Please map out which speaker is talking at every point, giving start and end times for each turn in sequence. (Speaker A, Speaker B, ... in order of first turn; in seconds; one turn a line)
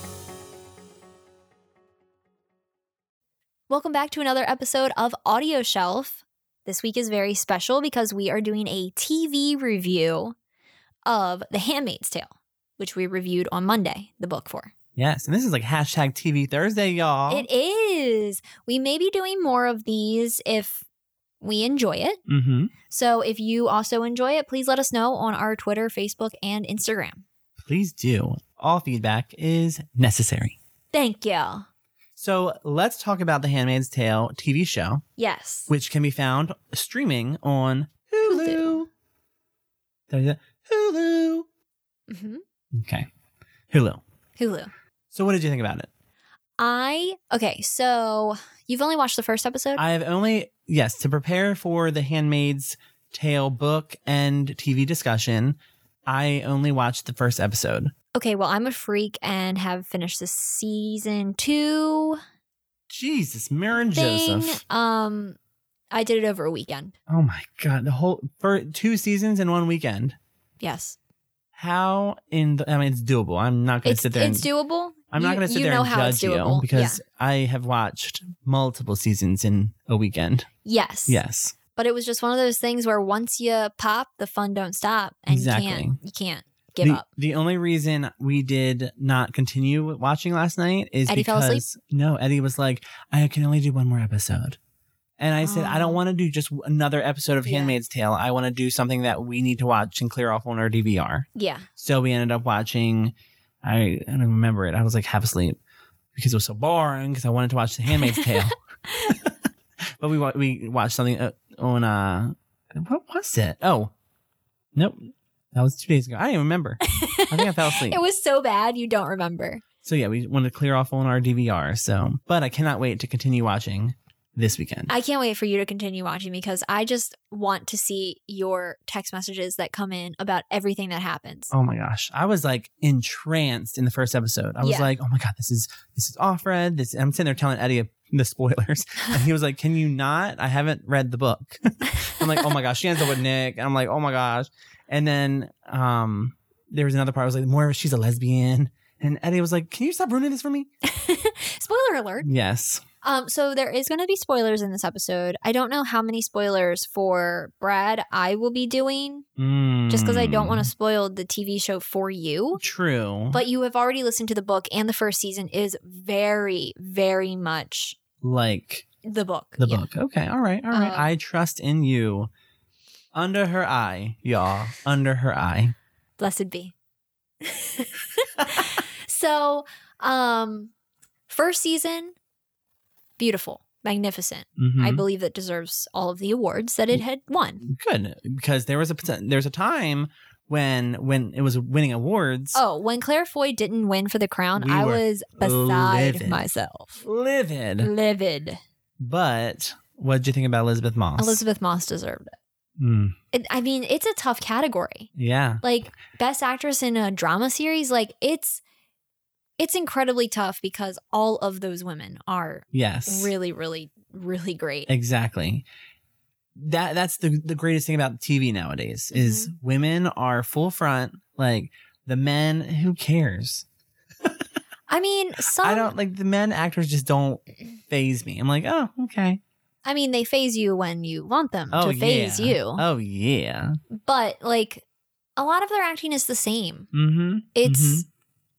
Speaker A: 3.7-10.3
Speaker A: 11.0-14.7
Speaker B: 14.9-17.5
Speaker A: 17.3-20.8
Speaker A: 21.4-22.2
Speaker B: 22.3-22.7
Speaker A: 22.9-27.2
Speaker B: 27.6-30.6
Speaker A: 30.9-31.6
Speaker B: 32.1-35.0
Speaker A: 35.2-35.7
Speaker B: 35.7-38.9
Speaker A: 38.2-38.8
Speaker B: 40.1-41.5
Speaker A: 42.1-42.4
Speaker B: 42.7-43.1
Speaker B: 43.7-44.0
Speaker A: 44.4-44.7
Speaker B: 45.1-45.9
Speaker A: 46.6-49.8
Speaker B: 49.8-57.9
Speaker A: 58.1-62.2
Speaker B: 62.9-64.6
Speaker A: 63.8-65.4
Speaker A: 65.9-66.9
Speaker B: 67.1-70.2
Speaker A: 70.6-71.0
Speaker B: 71.5-74.5
Speaker A: 73.8-77.0
Speaker B: 75.1-80.5
Speaker A: 80.6-81.2
Speaker B: 81.1-81.6
Speaker A: 81.7-87.0
Speaker B: 85.3-86.0
Speaker B: 86.8-94.6
Speaker A: 91.1-91.6
Speaker B: 95.2-101.2
Speaker A: 95.4-96.0
Speaker A: 97.4-97.7
Speaker A: 101.3-101.7
Speaker B: 101.8-105.6
Speaker B: 106.1-108.5
Speaker A: 108.0-109.2
Speaker B: 109.1-109.3
Speaker B: 110.0-113.9
Speaker B: 114.7-118.0
Speaker A: 116.9-119.6
Speaker B: 119.8-124.9
Speaker A: 124.9-131.5
Speaker B: 131.5-150.7
Speaker A: 134.6-134.9
Speaker A: 141.9-142.5
Speaker A: 150.8-152.3
Speaker B: 152.2-152.8
Speaker A: 153.0-159.2
Speaker B: 159.4-160.7
Speaker A: 159.9-162.6
Speaker B: 162.6-163.4
Speaker A: 163.3-168.0
Speaker B: 168.2-168.8
Speaker A: 169.0-169.9
Speaker B: 169.6-172.3
Speaker A: 170.7-171.1
Speaker B: 173.1-175.7
Speaker A: 176.2-176.7
Speaker A: 177.4-180.7
Speaker A: 181.3-182.1
Speaker A: 183.2-187.6
Speaker B: 184.6-185.0
Speaker B: 187.6-192.6
Speaker A: 192.5-197.0
Speaker B: 194.6-196.4
Speaker B: 197.0-197.9
Speaker A: 197.8-198.6
Speaker B: 199.0-201.4
Speaker A: 201.2-202.3
Speaker B: 202.8-203.1
Speaker A: 203.3-205.1
Speaker B: 205.1-205.6
Speaker A: 205.6-208.6
Speaker A: 209.6-214.9
Speaker B: 212.7-213.3
Speaker B: 214.9-215.6
Speaker B: 216.6-223.6
Speaker A: 219.1-219.5
Speaker A: 224.9-225.9
Speaker B: 225.6-229.4
Speaker A: 229.8-232.8
Speaker B: 231.7-233.8
Speaker A: 233.9-234.8
Speaker A: 235.4-236.9
Speaker B: 236.9-238.1
Speaker A: 237.5-238.0